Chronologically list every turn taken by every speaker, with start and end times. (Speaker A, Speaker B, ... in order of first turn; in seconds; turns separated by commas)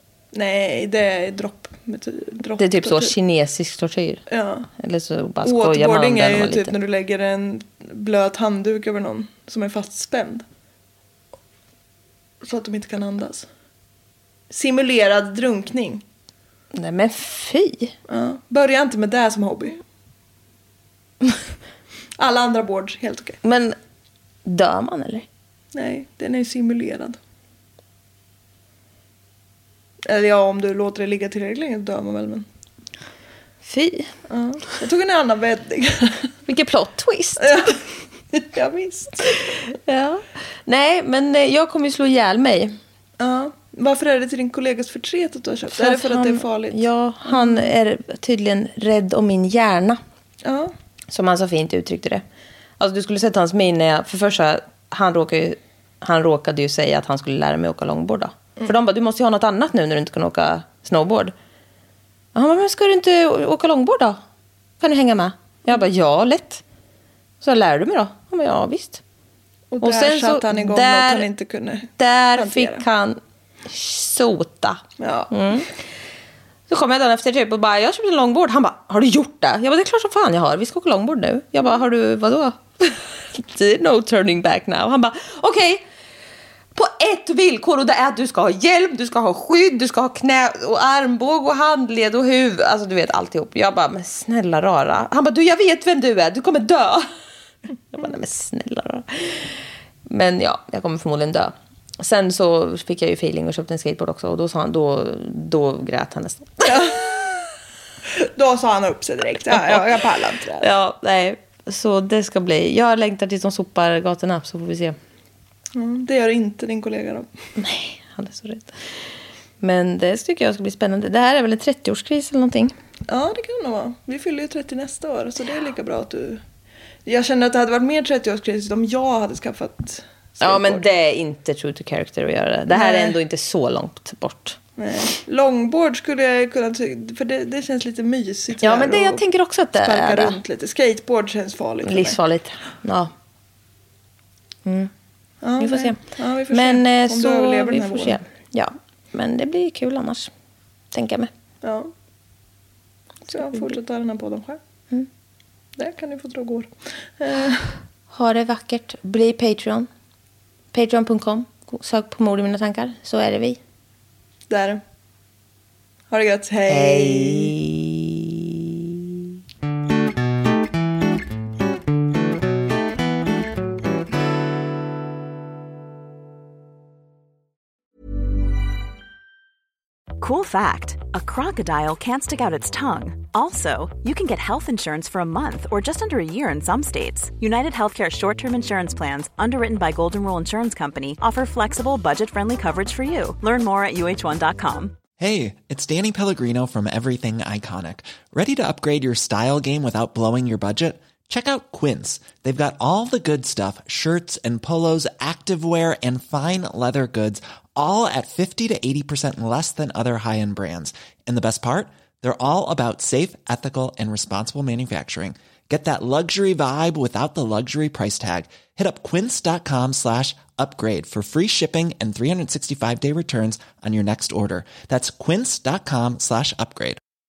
Speaker A: 0.3-3.1, Speaker B: 2.6-4.2, Speaker A: 4.3-4.7, Speaker B: 4.8-6.7, Speaker A: 5.4-10.4, Speaker A: 12.4-13.5, Speaker A: 14.5-16.0, Speaker B: 16.7-17.9, Speaker A: 18.1-19.8, Speaker A: 22.2-23.4, Speaker B: 23.4-23.8, Speaker B: 24.4-25.3, Speaker A: 25.7-27.2, Speaker A: 30.1-32.5, Speaker B: 33.6-34.1, Speaker A: 34.3-36.3, Speaker B: 36.5-37.7, Speaker A: 37.4-39.3, Speaker B: 39.7-42.8, Speaker A: 43.2-47.7, Speaker B: 45.7-50.0, Speaker A: 50.4-50.7, Speaker B: 51.1-52.2, Speaker B: 52.8-61.3, Speaker B: 62.3-64.2, Speaker B: 64.8-66.6, Speaker B: 67.4-69.0, Speaker A: 69.7-72.8, Speaker B: 69.8-71.3, Speaker B: 72.0-75.7, Speaker A: 75.0-75.3, Speaker B: 76.7-85.8, Speaker B: 86.8-97.1, Speaker B: 97.9-99.5, Speaker B: 100.1-106.9, Speaker A: 106.7-107.1, Speaker A: 108.2-110.7, Speaker B: 110.6-115.0, Speaker A: 115.8-117.3, Speaker B: 117.6-118.8, Speaker B: 119.6-122.7, Speaker A: 123.1-126.4, Speaker A: 127.0-130.8, Speaker B: 130.4-134.6, Speaker A: 132.7-133.2, Speaker A: 134.8-139.2, Speaker B: 138.6-140.4, Speaker A: 139.8-142.2, Speaker B: 141.8-143.1, Speaker B: 144.7-144.9, Speaker A: 145.4-148.2, Speaker B: 145.6-146.0, Speaker B: 146.5-150.3, Speaker B: 150.9-151.3, Speaker A: 151.6-151.9, Speaker A: 153.3-154.6, Speaker B: 153.3-153.7, Speaker A: 155.8-157.8, Speaker B: 158.1-159.9, Speaker B: 160.7-163.6, Speaker A: 164.5-164.8, Speaker A: 166.1-167.6, Speaker B: 166.7-169.0, Speaker C: 180.2-195.0, Speaker D: 195.2-227.0